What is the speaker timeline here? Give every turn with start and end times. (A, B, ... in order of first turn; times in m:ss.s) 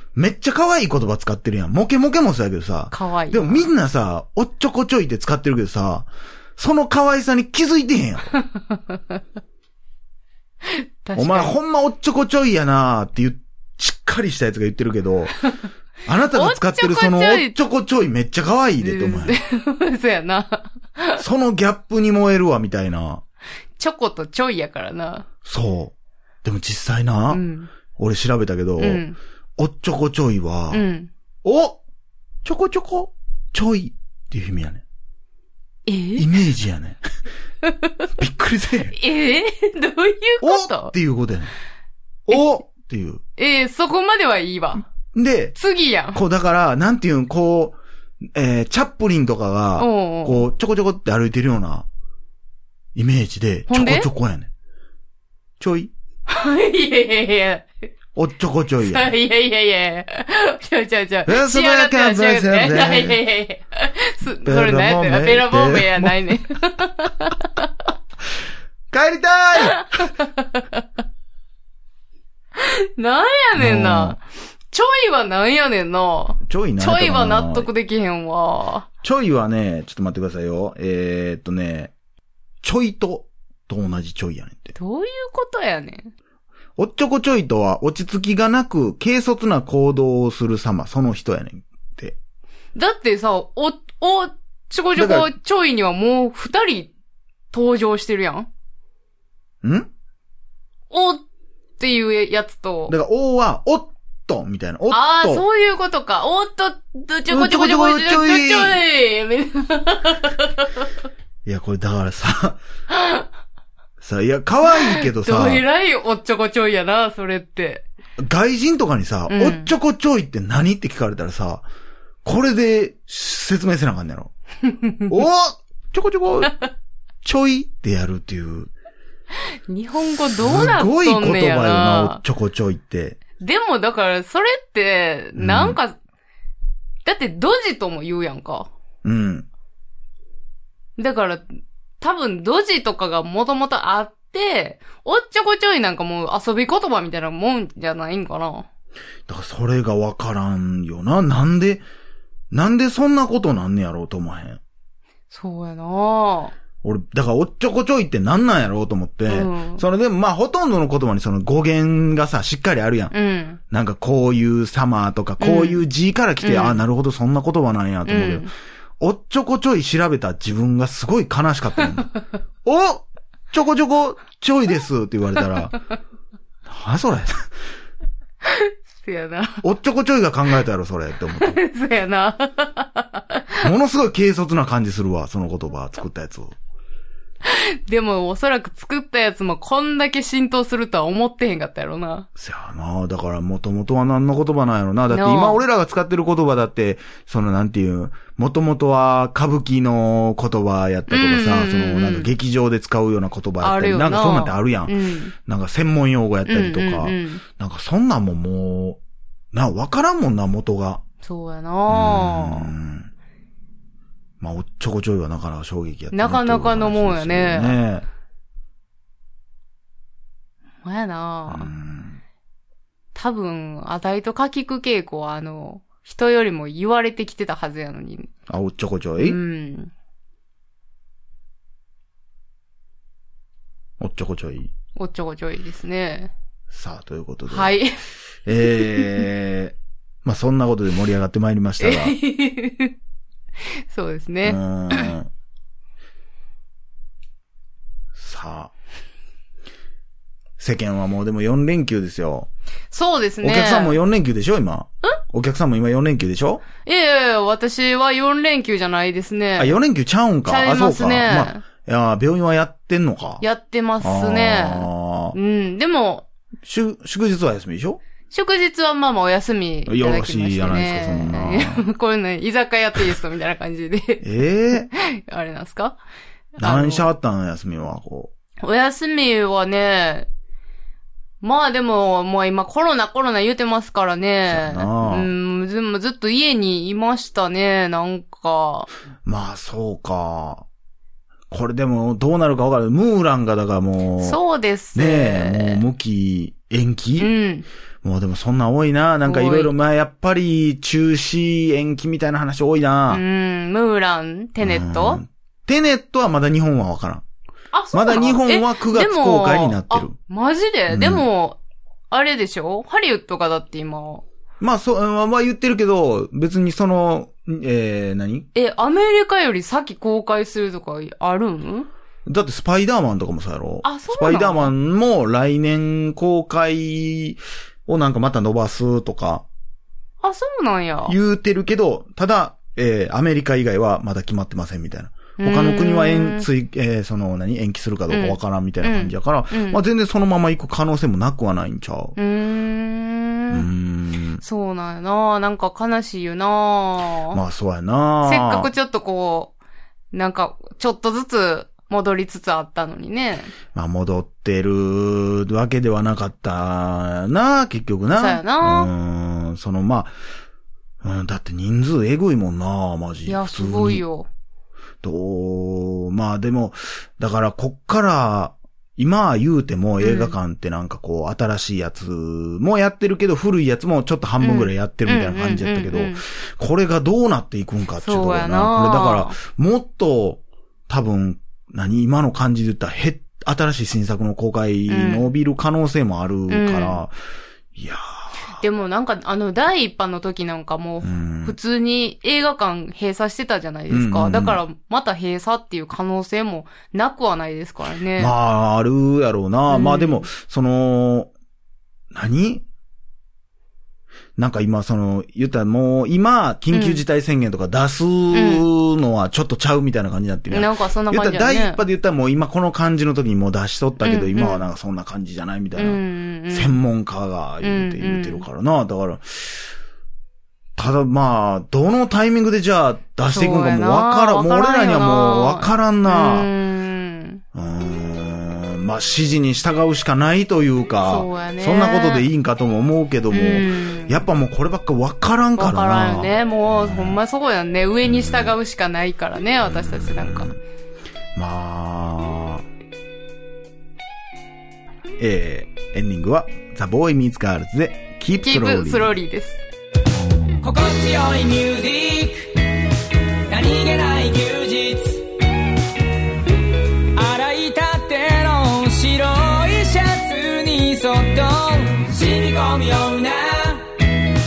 0:00.1-0:08.3 A
0:02.9-0:03.7 B
0:08.5-0:09.2 B
0:10.7-0:11.5 B
0:11.1-0:15.3 A
0:16.0-0:19.4 A
0:16.3-0:17.6 B
0:18.8-0:21.2 B
0:21.2-0:23.2 A
0:23.8-0:25.2 B
0:25.4-0:25.9 A
0:26.4-0:27.4 A
0:27.3-0:27.7 B
0:27.9-0:29.0 A
0:28.8-0:29.2 B
0:29.6-0:30.8 A
0:30.7-0:31.1 B
0:31.4-0:31.8 A
0:32.4-0:34.8 A
0:35.8-0:36.3 B
0:36.2-0:37.0 A
0:38.2-0:38.9 A
0:38.9-0:40.9 B
0:40.4-0:41.5 A
0:42.3-0:43.2 A
0:43.4-0:44.8 B
0:45.1-0:45.6 A
0:45.5-0:46.2 B
0:46.1-0:47.8 A
0:48.3-0:51.8 A
0:49.8-0:50.4 B
0:52.9-0:54.5 A
0:53.7-0:54.1 B
0:55.6-0:55.9 A
0:56.3-0:57.7 B
0:58.2-0:59.1 A
0:58.8-1:07.7 B
1:01.3-1:03.2 A
1:04.4-1:06.2 A
1:08.9-1:09.8 A
1:09.8-1:10.8 B
1:12.6-1:18.9 B
1:13.6-1:14.2 A
1:16.5-1:17.7 A
1:19.0-1:21.9 A
1:22.6-1:24.7 A
1:24.7-1:26.1 B
1:26.8-1:32.2 A
1:32.7-1:36.9 B
1:35.0-1:35.3 A
1:37.5-1:38.5 B
1:39.6-1:39.9 A
1:40.9-1:41.2 B
1:41.8-1:42.9 B
1:42.9-1:45.4 A
1:44.9-1:50.8 B
1:47.3-1:48.8 A
1:51.4-1:52.6 A
1:52.9-1:53.2 B
1:54.0-1:55.6 A
1:54.7-1:57.8 B
1:58.2-2:01.6 A
1:59.3-1:59.7 B
2:02.2-2:04.3 A
2:05.1-2:06.6 A
2:07.2-2:08.7 A
2:09.7-2:12.2 B
2:10.3-2:13.2 A
2:13.4-2:16.0 B
2:15.4-2:15.8 A
2:17.0-2:18.7 B
2:19.0-2:19.4 A
2:21.0-2:21.4 B
2:22.0-2:28.7 B
2:29.3-2:31.8 A
2:32.5-2:34.6 A
2:35.3-2:36.5 B
2:36.8-2:43.1 A
2:39.3-2:39.8 B
2:43.1-2:43.6 B
2:43.7-2:48.5 A
2:45.4-2:45.8 B
2:46.4-2:46.8 B
2:48.0-2:48.5 B
2:49.0-2:52.1 A
2:52.6-2:55.8 A
2:56.7-2:57.5 A
2:58.4-2:59.6 B
2:59.6-3:01.6 A
3:01.3-3:03.5 B
3:03.6-3:06.6 A
3:07.4-3:12.3 B
3:12.4-3:24.9 A
3:15.1-3:15.6 B
3:21.1-3:22.3 B
3:23.6-3:25.3 B
3:25.4-3:29.0 A
3:26.4-3:27.4 B
3:29.5-3:31.0 A
3:31.2-3:32.7 B
3:31.9-3:33.1 A
3:34.4-3:38.0 A
3:36.1-3:37.8 B
3:40.8-3:41.7 B
3:41.5-3:42.2 A
3:43.1-3:48.3 B
3:48.5-3:49.4 A
3:49.2-3:49.9 B
3:54.0-3:54.7 A
3:55.0-3:56.3 B
3:56.7-3:57.7 A
3:57.5-3:58.1 B
3:58.4-4:02.1 A
4:01.8-4:02.9 B
4:03.9-4:05.1 B
4:04.4-4:05.3 A
4:08.1-4:08.7 A
4:10.6-4:12.5 A
4:12.9-4:14.0 B
4:13.4-4:16.6 A
4:16.8-4:19.8 B
4:19.6-4:23.4 A
4:20.4-4:21.6 B
4:23.4-4:26.2 B
4:24.0-4:25.4 A
4:26.6-4:28.0 A
4:28.3-4:36.0 B
4:29.9-4:31.8 A
4:34.2-4:34.9 A
4:36.6-4:37.1 B
4:36.6-4:38.3 A
4:38.6-4:40.3 B
4:41.4-4:48.9 B
4:44.5-4:45.3 A
4:49.2-4:50.6 A
4:51.5-4:54.4 A
4:54.2-4:55.8 B
4:54.9-4:57.3 A
4:57.2-4:57.6 B
4:58.0-5:03.2 A
4:59.2-4:59.7 B
5:03.1-5:05.2 B
5:04.6-5:07.2 A
5:07.7-5:11.6 B
5:07.9-5:10.2 A
5:10.9-5:11.2 A
5:12.1-5:14.2 B
5:14.6-5:18.5 A
5:18.5-5:21.9 B
5:22.3-5:29.4 A
5:23.8-5:24.7 B
5:30.2-5:31.2 B
5:31.0-5:42.2 A
5:35.4-5:36.5 B
5:38.1-5:39.8 B
5:42.2-5:43.7 B
5:43.5-5:44.4 A
5:44.4-5:47.4 B
5:47.3-5:48.7 A
5:48.2-5:49.5 B
5:50.1-5:53.5 B
5:53.7-6:00.1 A
5:58.1-5:58.9 B
6:01.0-6:04.0 A
6:03.2-6:04.3 B
6:05.0-6:27.1 A
6:10.0-6:10.4 B
6:14.4-6:16.2 B
6:18.0-6:19.4 B
6:24.9-6:25.3 B
6:26.5-6:27.0 B
6:27.7-6:28.0 A
6:28.6-6:38.3 B
6:31.0-6:31.6 A
6:33.9-6:34.6 A
6:38.2-6:41.3 A
6:39.7-6:40.3 B
6:42.1-6:42.6 A
6:44.4-6:59.6 A
6:46.7-6:47.0 B
6:48.3-6:48.6 B
6:50.5-6:51.8 B
6:54.0-6:54.6 B
6:55.7-6:56.8 B
6:57.6-6:58.4 B
7:00.8-7:06.5 A
7:03.2-7:07.4 B
7:07.5-7:17.2 A
7:11.0-7:12.3 B
7:13.3-7:14.2 B
7:15.6-7:20.5 B
7:18.0-7:18.5 A
7:19.6-7:20.6 A
7:21.3-7:22.6 A
7:25.2-7:29.1 A
7:28.4-7:29.6 B
7:30.6-7:32.6 C
7:33.5-7:35.2 C
7:37.1-7:44.2 C